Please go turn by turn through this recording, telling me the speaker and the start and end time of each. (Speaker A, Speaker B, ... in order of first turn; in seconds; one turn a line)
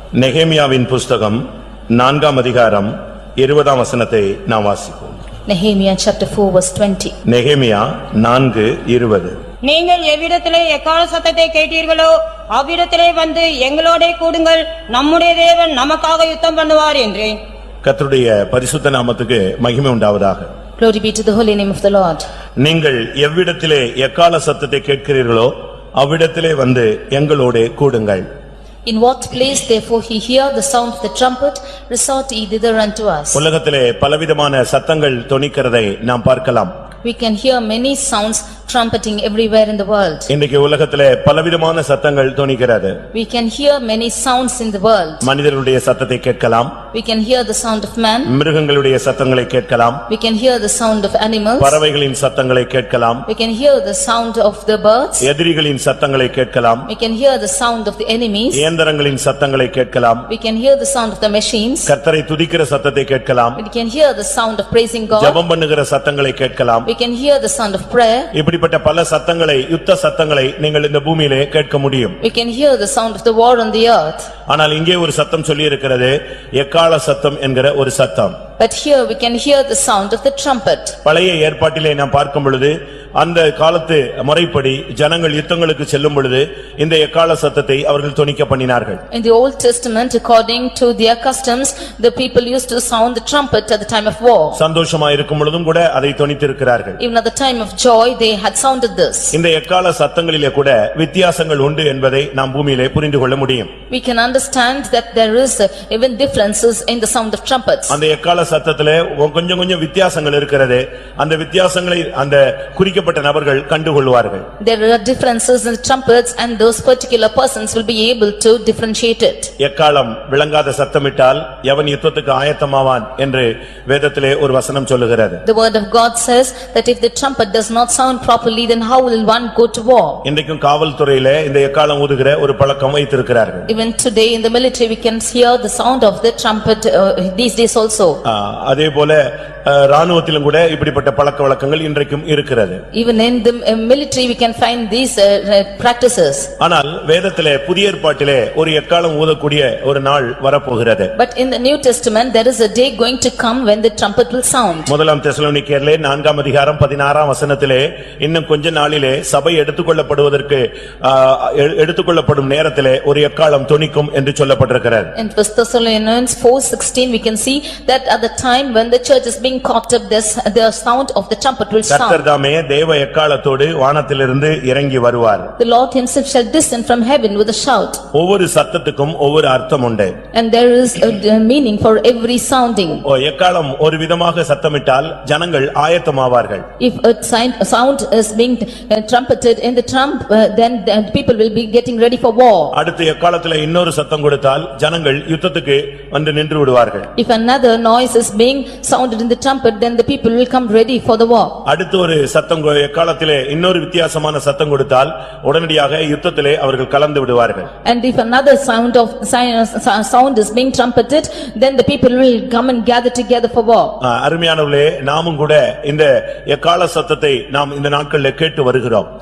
Speaker A: 0.2-1.4
Speaker A: 1.9-5.2
Speaker B: 5.5-7.1
Speaker A: 7.2-9.4
Speaker C: 9.6-17.4
Speaker A: 17.8-20.5
Speaker B: 20.8-22.2
Speaker A: 22.6-28.2
Speaker B: 28.9-33.4
Speaker A: 33.3-36.7
Speaker B: 37.0-40.3
Speaker A: 40.3-43.0
Speaker B: 43.1-45.3
Speaker A: 45.2-46.7
Speaker B: 46.9-48.3
Speaker A: 48.3-50.0
Speaker B: 50.1-51.8
Speaker A: 51.6-53.2
Speaker B: 53.3-55.3
Speaker A: 55.2-56.9
Speaker B: 56.9-58.7
Speaker A: 58.5-60.3
Speaker B: 60.3-61.9
Speaker A: 61.9-63.6
Speaker B: 63.6-65.4
Speaker A: 65.1-66.9
Speaker B: 66.8-68.3
Speaker A: 68.3-72.2
Speaker B: 72.2-74.3
Speaker A: 74.5-78.3
Speaker B: 78.6-81.0
Speaker A: 81.0-89.0
Speaker B: 89.1-94.6
Speaker A: 94.5-97.0
Speaker B: 97.0-99.3
Speaker A: 99.3-103.7
Speaker B: 103.9-108.0
Speaker A: 107.9-114.4
Speaker B: 114.6-119.5
Speaker A: 119.6-125.4
Speaker B: 125.4-130.2
Speaker A: 130.2-133.7
Speaker B: 133.7-138.2
Speaker A: 138.2-142.8
Speaker B: 142.9-146.5
Speaker A: 146.6-151.1
Speaker B: 151.2-154.9
Speaker A: 154.9-165.1
Speaker B: 165.1-172.2
Speaker A: 171.9-175.5
Speaker B: 175.6-178.0
Speaker A: 178.1-180.2
Speaker B: 180.3-183.0
Speaker A: 183.0-186.7
Speaker B: 186.8-192.7
Speaker A: 192.7-197.1
Speaker B: 197.2-201.6
Speaker A: 201.7-207.7
Speaker B: 207.8-214.0
Speaker A: 214.0-219.1